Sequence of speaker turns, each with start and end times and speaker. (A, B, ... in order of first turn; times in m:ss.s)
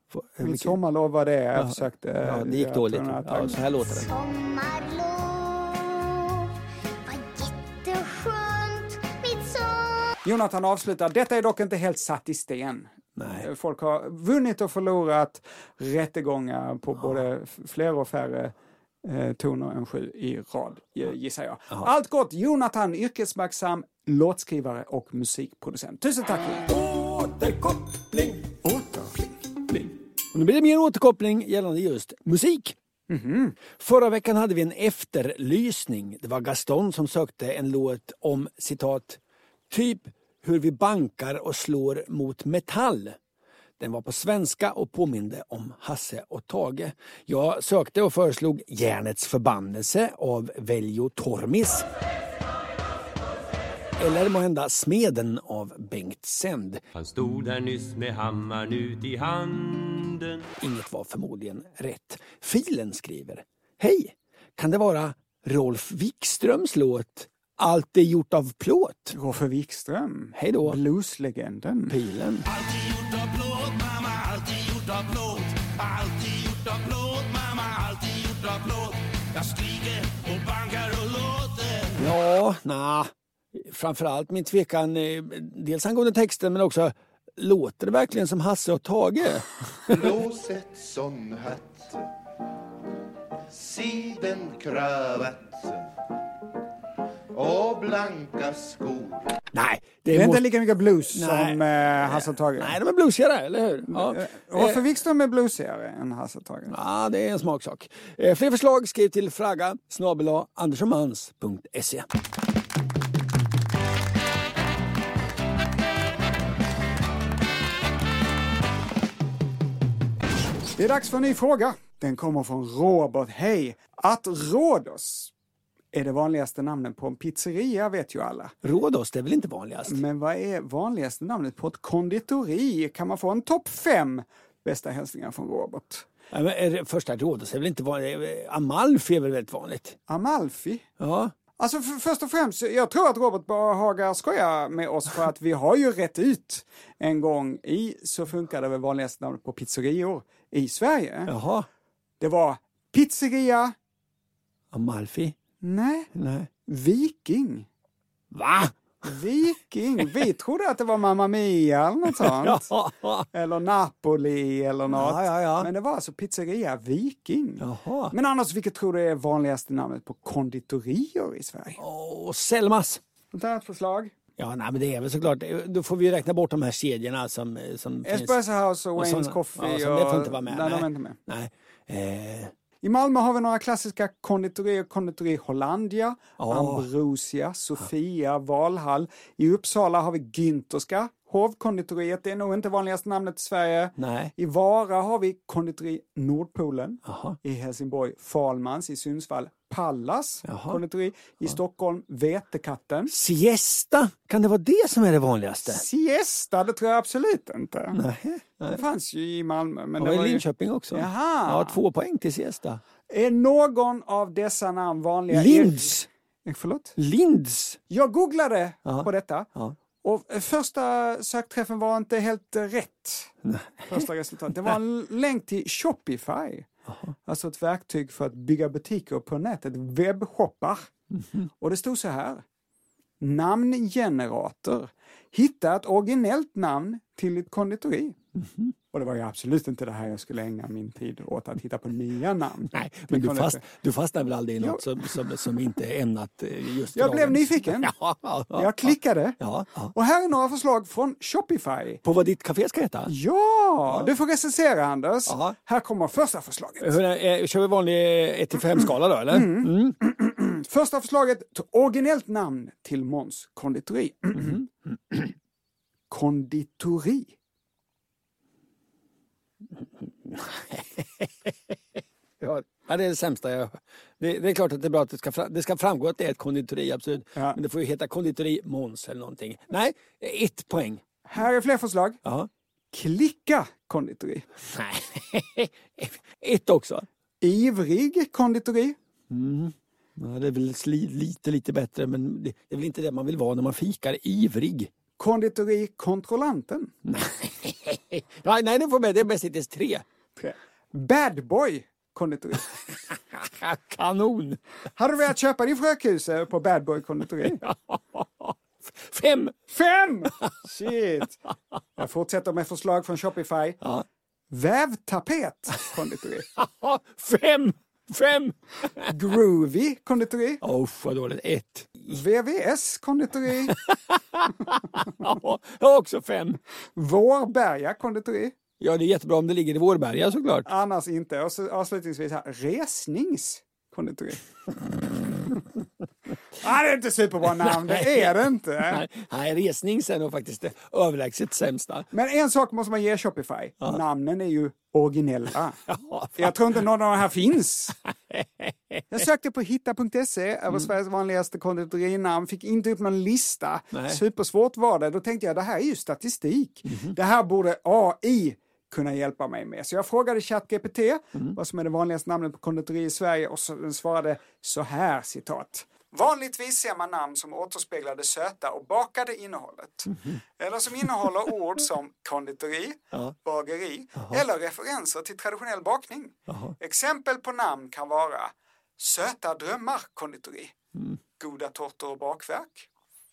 0:00.1-0:00.8 A
0:00.4-0:04.1 B
0:01.6-0:04.1 A
0:04.1-0:06.5 C
0:07.1-0:10.1 C
0:10.2-0:26.7 B
0:13.2-0:13.5 A
0:26.7-0:28.4 A
0:28.6-0:29.4 B
0:29.7-0:32.8 A
0:33.1-0:33.6 B
0:33.8-0:39.2 A
0:39.7-0:43.2 A
0:43.8-0:51.9 A
0:54.0-0:56.8 A
0:57.0-1:00.4 D
1:00.6-1:09.2 A
1:09.1-1:12.0 B
1:10.4-1:10.8 A
1:11.9-1:12.4 A
1:12.5-1:22.0 D
1:22.0-1:30.0 A
1:29.9-1:32.0 E
1:33.5-1:35.8 E
1:37.3-1:39.3 E
1:39.5-1:40.5 A
1:40.1-1:42.8 B
1:41.1-1:44.8 A
1:43.9-1:46.7 B
1:46.7-1:52.1 A
2:00.8-2:05.3 B
2:05.9-2:08.5 B
2:08.6-2:10.0 A
2:09.9-2:16.1 B
2:16.3-2:20.0 A
2:20.1-2:20.9 B
2:21.0-2:21.3 A
2:21.6-2:31.3 B
2:31.3-2:31.7 A
2:32.2-2:33.8 B
2:34.7-2:35.4 A
2:35.6-2:36.1 B
2:36.1-2:36.5 A
2:36.7-2:37.7 B
2:38.3-2:38.8 A
2:39.0-2:42.7 B
2:42.1-2:43.3 A
2:43.3-2:51.8 B
2:44.9-2:45.7 A
2:47.6-2:48.1 A
2:51.8-2:53.0 A
2:53.3-2:54.1 B
2:54.4-2:58.4 A
2:58.0-3:01.2 B
2:59.0-3:02.5 A
3:02.8-3:23.1 B
3:06.4-3:06.9 A
3:14.0-3:14.3 A
3:17.0-3:17.4 A
3:20.4-3:20.8 A
3:23.1-3:25.8 A
3:25.7-3:28.0 B
3:27.9-3:28.8 A
3:28.7-3:31.8 B
3:30.0-3:32.8 A
3:33.1-3:36.9 B
3:35.3-3:36.1 A
3:37.0-3:37.8 A
3:37.9-3:39.5 B
3:38.9-3:39.8 A
3:40.0-3:43.3 B
3:43.4-3:44.0 A
3:43.9-3:46.7 B
3:46.9-3:47.1 A
3:47.2-3:50.9 B
3:51.1-3:51.5 A
3:51.6-3:52.4 B
3:53.2-3:58.2 B
3:58.4-3:58.7 A
3:58.9-4:03.6 B
4:02.7-4:09.9 A
4:07.0-4:07.9 B
4:08.5-4:09.4 B
4:09.9-4:12.0 B
4:12.0-4:13.1 A
4:13.1-4:17.0 B
4:15.3-4:15.6 A
4:16.8-4:20.0 A
4:19.3-4:24.6 B
4:24.4-4:25.3 A
4:26.1-4:27.4 B
4:29.8-4:41.0 A
4:41.3-4:42.2 B
4:42.2-4:42.5 A
4:42.9-4:44.5 B
4:44.6-4:47.1 A
4:47.4-4:49.0 B
4:49.3-4:54.9 A
4:55.2-4:56.9 B
4:57.0-5:00.0 A
5:00.4-5:02.7 B
5:03.1-5:04.6 A
5:05.0-5:07.6 B
5:07.5-5:09.6 A
5:09.7-5:11.4 B
5:12.0-5:13.8 B
5:14.5-5:16.5 B
5:16.6-5:19.1 A
5:19.1-5:20.6 B
5:20.6-5:22.1 A
5:22.1-5:23.8 B
5:23.7-5:26.6 A
5:27.0-5:28.6 B
5:28.8-5:30.7 A
5:30.7-5:34.4 B
5:36.6-5:39.0 B
5:37.6-5:42.1 A
5:42.1-5:45.8 B
5:45.9-5:46.6 A
5:46.4-5:48.0 B
5:48.3-5:49.0 A
5:49.1-6:20.8 B
5:53.9-5:54.2 A
5:56.9-5:57.2 A
6:14.2-6:14.4 A
6:16.5-6:16.8 A
6:21.4-6:22.9 B